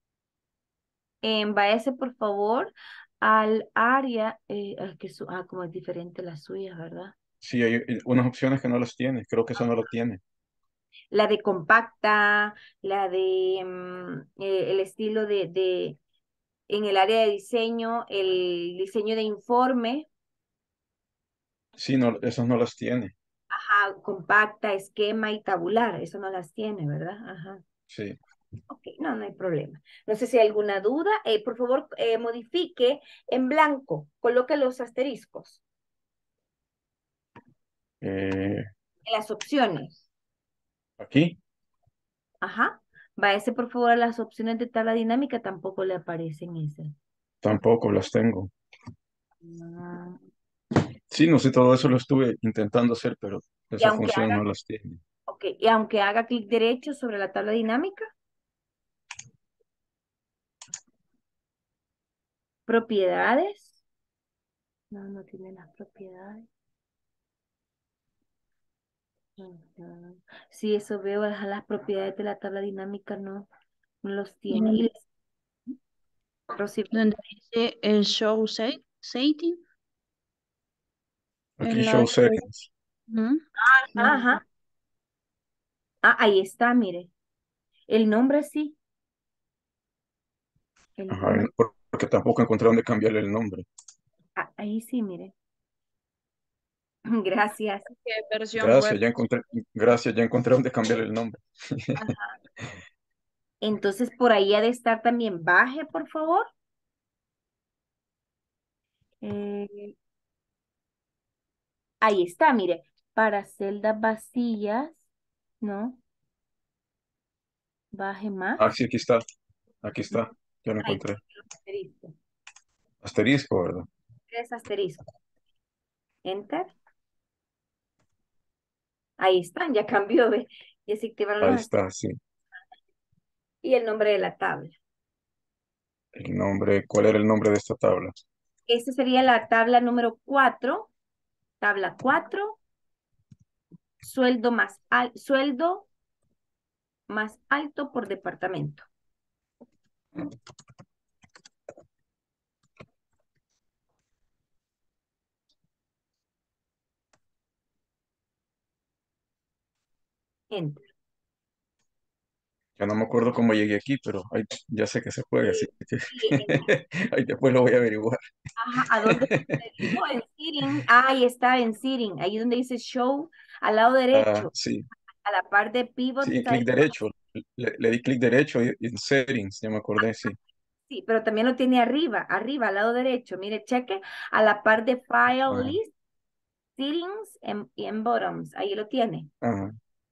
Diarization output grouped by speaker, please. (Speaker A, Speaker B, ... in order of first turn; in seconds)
Speaker A: 1.2-7.1, 11.1-16.0, 16.7-20.1, 23.5-27.6, 28.7-35.6, 39.0-40.0, 42.4-46.9, 49.4-50.2, 53.8-54.4, 55.3-58.1, 62.7-63.8, 64.9-66.5, 69.4-73.5, 74.0-75.0, 76.5-76.9, 83.6-84.4, 86.0-87.1, 87.9-88.8, 91.0-91.5, 94.3-95.3, 97.0-97.8, 102.0-102.3, 103.6-106.5, 109.2-109.9, 112.0-115.0, 115.6-116.0, 117.9-118.6, 120.8-122.1, 124.3-125.0, 126.2-126.7, 129.2-131.7, 133.6-134.8, 138.7-140.9, 141.6-142.6, 144.0-145.9, 147.1-148.8, 160.5-160.8, 165.4-166.7, 168.6-174.5, 175.2-177.0, 180.0-180.3, 180.9-185.9, 186.8-189.3
Speaker B: 7.4-10.2, 21.8-23.1, 27.9-28.2, 38.0-38.6, 41.0-41.4, 47.4-48.5, 51.1-55.0, 81.6-82.7, 91.1-93.7, 98.6-102.0, 118.6-119.2, 119.8-121.2, 123.0-123.9, 131.4-132.2, 136.1-138.1, 162.8-168.2, 169.1-169.5, 174.1-174.9, 176.2-180.3, 185.5-185.8, 189.4-189.8
Speaker C: 74.5-74.8, 76.9-79.6, 81.6-82.4, 83.1-83.4, 84.0-84.4, 97.9-99.0